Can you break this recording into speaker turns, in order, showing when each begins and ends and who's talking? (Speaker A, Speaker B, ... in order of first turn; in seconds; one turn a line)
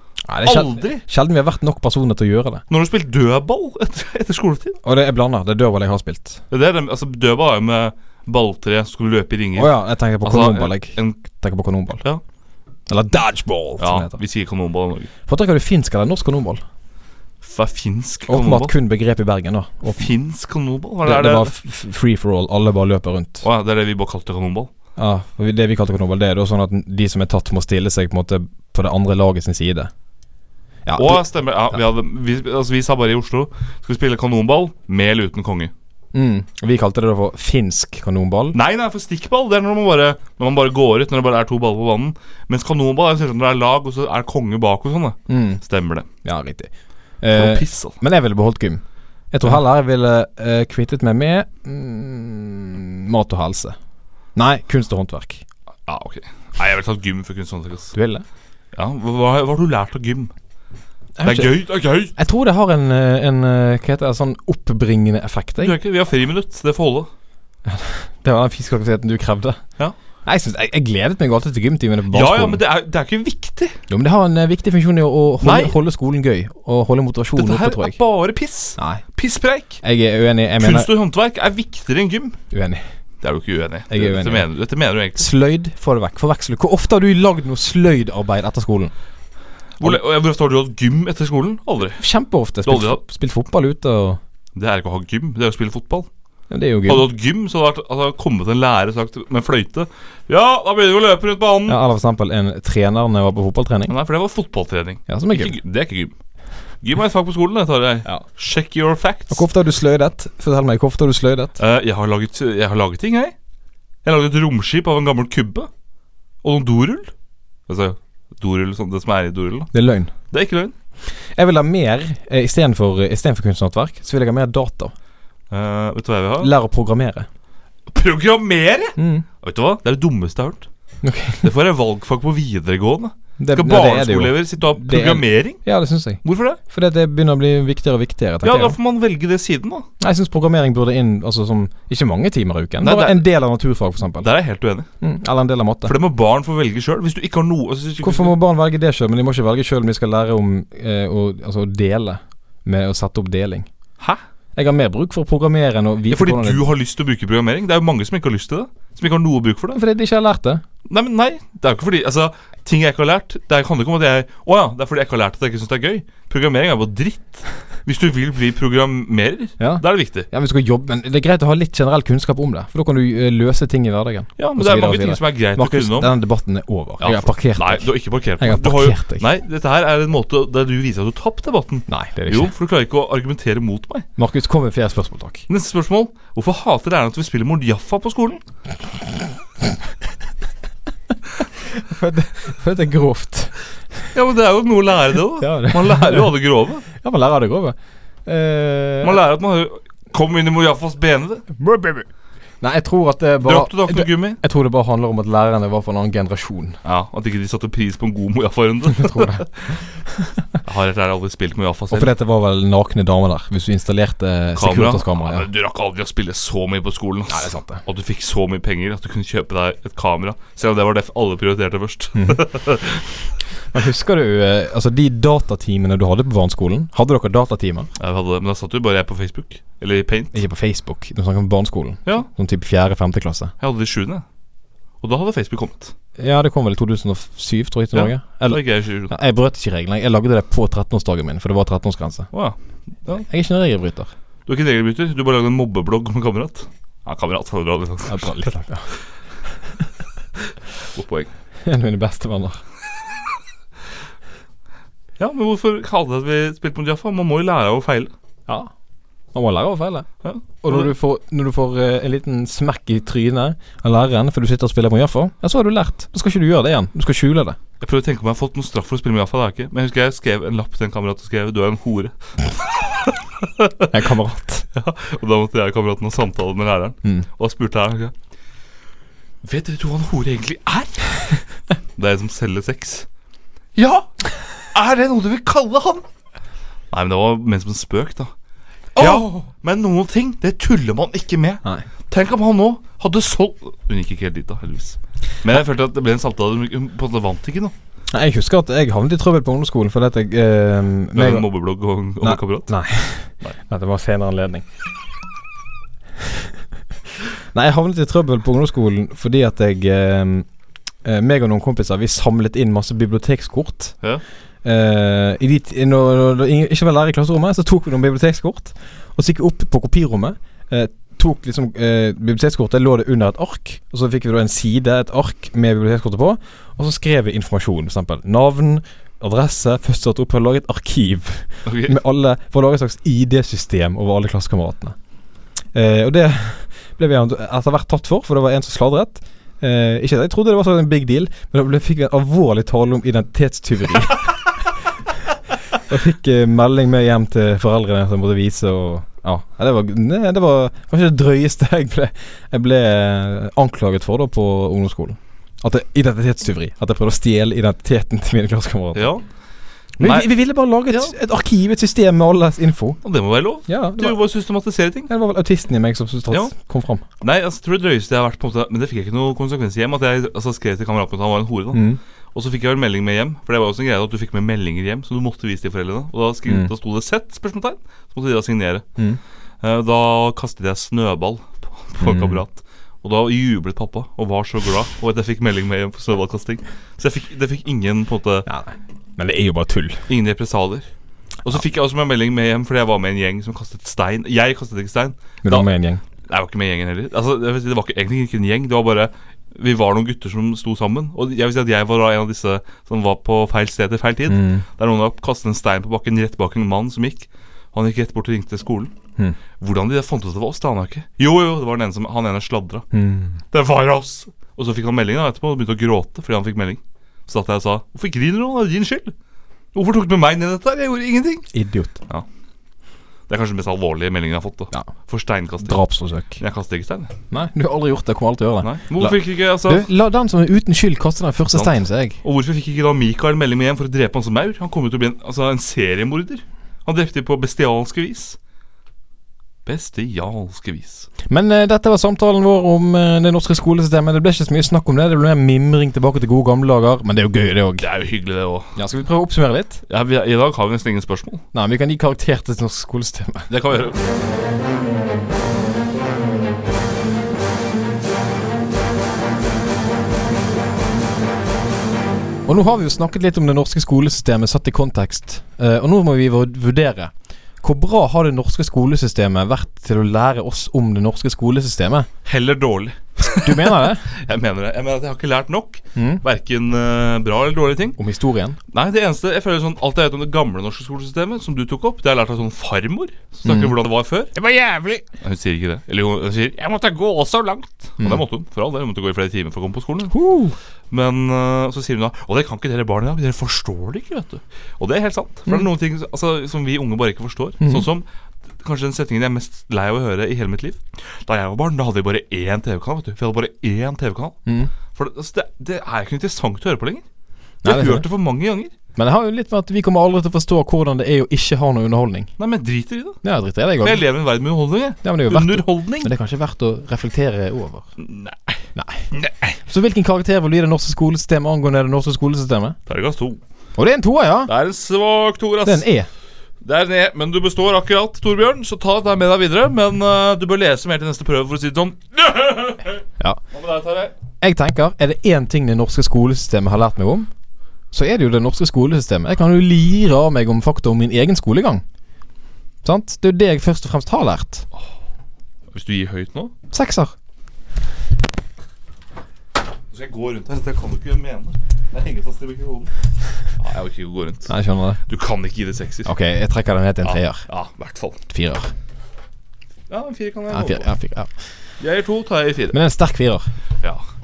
Speaker A: 0.2-2.6
Speaker B: 0.4-1.0
Speaker B: 2.7-4.8
Speaker A: 4.8-6.4
Speaker B: 6.5-11.2
Speaker A: 9.6-12.0
Speaker A: 12.9-14.2
Speaker B: 13.8-15.1
Speaker A: 15.3-16.6
Speaker B: 17.4-18.7
Speaker A: 18.3-20.1
Speaker B: 20.0-21.5
Speaker A: 21.0-23.4
Speaker B: 23.4-24.7
Speaker A: 25.0-29.9
Speaker A: 30.9-31.8
Speaker B: 30.9-35.7
Speaker A: 36.1-38.6
Speaker B: 38.5-46.1
Speaker A: 45.3-45.6
Speaker A: 46.2-53.8
Speaker B: 47.3-48.0
Speaker A: 54.4-55.5
Speaker B: 55.9-57.9
Speaker A: 57.9-58.2
Speaker B: 58.7-60.3
Speaker A: 61.2-65.8
Speaker B: 61.2-62.1
Speaker B: 65.6-67.1
Speaker A: 67.7-69.6
Speaker A: 70.2-72.6
Speaker B: 72.1-73.8
Speaker A: 73.9-78.0
Speaker B: 75.4-75.8
Speaker B: 77.3-79.8
Speaker A: 78.8-79.0
Speaker A: 79.8-80.9
Speaker B: 80.6-82.4
Speaker A: 82.5-82.8
Speaker B: 83.2-85.3
Speaker A: 83.9-84.5
Speaker A: 85.2-88.9
Speaker B: 89.8-92.0
Speaker A: 92.0-94.2
Speaker B: 92.7-93.0
Speaker B: 94.5-96.1
Speaker A: 96.5-97.1
Speaker B: 96.9-101.8
Speaker A: 101.7-103.9
Speaker B: 103.9-106.2
Speaker A: 105.1-105.6
Speaker B: 106.8-109.4
Speaker A: 109.3-111.6
Speaker B: 111.6-113.3
Speaker B: 114.0-115.7
Speaker B: 116.4-117.1
Speaker B: 117.7-119.7
Speaker A: 119.7-120.1
Speaker B: 120.3-120.7
Speaker A: 121.3-124.9
Speaker B: 125.5-126.5
Speaker A: 126.4-127.3
Speaker B: 127.9-130.7
Speaker A: 129.0-129.2
Speaker A: 131.0-131.5
Speaker B: 131.4-135.6
Speaker A: 133.4-138.8
Speaker B: 136.2-136.6
Speaker B: 138.4-139.9
Speaker A: 140.0-144.3
Speaker B: 142.8-143.2
Speaker B: 144.2-144.9
Speaker A: 145.0-146.0
Speaker B: 145.8-148.4
Speaker A: 148.0-153.7
Speaker A: 154.6-156.6
Speaker B: 156.1-159.8
Speaker A: 159.7-160.6
Speaker B: 160.9-170.3
Speaker A: 169.6-179.2
Speaker B: 174.4-176.1
Speaker B: 177.0-184.1
Speaker A: 181.9-182.5
Speaker A: 184.2-185.5
Speaker B: 185.5-188.4
Speaker A: 191.6-193.5
Speaker B: 194.1-196.8
Speaker A: 195.4-196.3
Speaker A: 196.9-199.2
Speaker B: 199.0-201.5
Speaker A: 201.5-202.1
Speaker A: 202.6-206.8
Speaker B: 203.4-204.4
Speaker B: 206.8-209.4
Speaker A: 208.9-209.5
Speaker A: 210.1-210.4
Speaker B: 210.6-212.1
Speaker A: 211.9-215.5
Speaker B: 214.6-223.1
Speaker A: 217.3-217.8
Speaker A: 223.7-227.9
Speaker B: 228.0-230.4
Speaker A: 230.3-233.5
Speaker B: 233.6-234.2
Speaker B: 235.0-235.9
Speaker A: 236.2-242.3
Speaker B: 237.9-239.1
Speaker B: 242.3-243.3
Speaker A: 243.3-244.1
Speaker B: 244.5-248.5
Speaker A: 248.1-248.9
Speaker B: 250.9-251.3
Speaker A: 251.7-252.6
Speaker B: 255.2-258.1
Speaker A: 259.3-260.1
Speaker B: 260.2-260.9
Speaker A: 260.6-267.6
Speaker B: 267.8-273.9
Speaker A: 273.9-274.7
Speaker B: 274.7-278.1
Speaker B: 279.4-281.2
Speaker B: 282.0-283.1
Speaker B: 283.8-284.1
Speaker B: 284.7-286.0
Speaker B: 286.9-288.3
Speaker A: 288.9-289.4
Speaker B: 289.0-297.7
Speaker A: 298.1-301.5
Speaker B: 301.1-302.7
Speaker A: 302.2-304.7
Speaker A: 307.5-310.5
Speaker A: 311.0-313.9
Speaker A: 314.6-335.0
Speaker B: 331.6-332.0
Speaker A: 335.7-344.3
Speaker A: 345.8-359.1
Speaker B: 358.9-359.2
Speaker A: 360.0-363.0
Speaker B: 360.0-360.3
Speaker B: 363.0-365.1
Speaker A: 363.7-364.2
Speaker A: 365.1-367.1
Speaker B: 367.2-378.9
Speaker A: 371.7-372.0
Speaker B: 379.6-388.5
Speaker A: 382.0-382.4
Speaker A: 388.5-390.1
Speaker B: 390.1-390.9
Speaker B: 391.4-395.7
Speaker A: 395.4-396.0
Speaker B: 396.3-408.9
Speaker A: 404.3-404.6
Speaker B: 409.6-412.9
Speaker A: 412.9-413.4
Speaker B: 413.5-419.1
Speaker B: 419.7-421.5
Speaker A: 421.5-422.0
Speaker B: 423.3-425.8
Speaker A: 425.6-426.4
Speaker B: 426.4-427.1
Speaker A: 427.3-432.2
Speaker B: 428.6-429.9
Speaker B: 431.6-438.4
Speaker B: 439.7-441.1
Speaker A: 441.3-447.9
Speaker B: 447.8-448.8
Speaker A: 448.8-449.8
Speaker B: 449.9-451.4
Speaker A: 451.5-453.5
Speaker B: 453.5-454.0
Speaker A: 462.5-472.1
Speaker B: 472.2-478.0
Speaker A: 473.4-474.0
Speaker A: 475.9-476.2
Speaker A: 478.0-478.6
Speaker B: 478.7-484.3
Speaker A: 483.4-483.8
Speaker A: 484.4-485.0
Speaker B: 485.2-490.1
Speaker A: 488.0-488.2
Speaker A: 490.1-490.6
Speaker B: 490.9-498.1
Speaker A: 497.6-497.9
Speaker B: 498.6-504.4
Speaker A: 504.5-504.7
Speaker B: 504.9-507.1
Speaker A: 507.6-508.1
Speaker B: 507.6-508.7
Speaker A: 509.0-512.3
Speaker B: 512.4-513.2
Speaker A: 513.2-514.0
Speaker B: 513.8-516.1
Speaker A: 515.0-517.9
Speaker B: 518.0-519.6
Speaker A: 518.8-519.1
Speaker A: 519.7-522.8
Speaker B: 522.9-523.4
Speaker A: 523.8-524.5
Speaker B: 524.5-525.9
Speaker A: 525.6-526.1
Speaker B: 526.6-534.1
Speaker A: 534.4-537.3
Speaker A: 537.9-541.8
Speaker A: 542.8-544.7
Speaker B: 545.7-546.5
Speaker A: 546.7-547.1
Speaker B: 549.9-552.9
Speaker B: 553.6-554.5
Speaker A: 554.5-555.0
Speaker B: 555.1-556.1
Speaker A: 556.1-557.5
Speaker B: 557.0-558.2
Speaker A: 558.3-558.7
Speaker B: 559.9-560.9
Speaker A: 560.5-561.3
Speaker B: 561.8-562.8
Speaker A: 562.7-563.5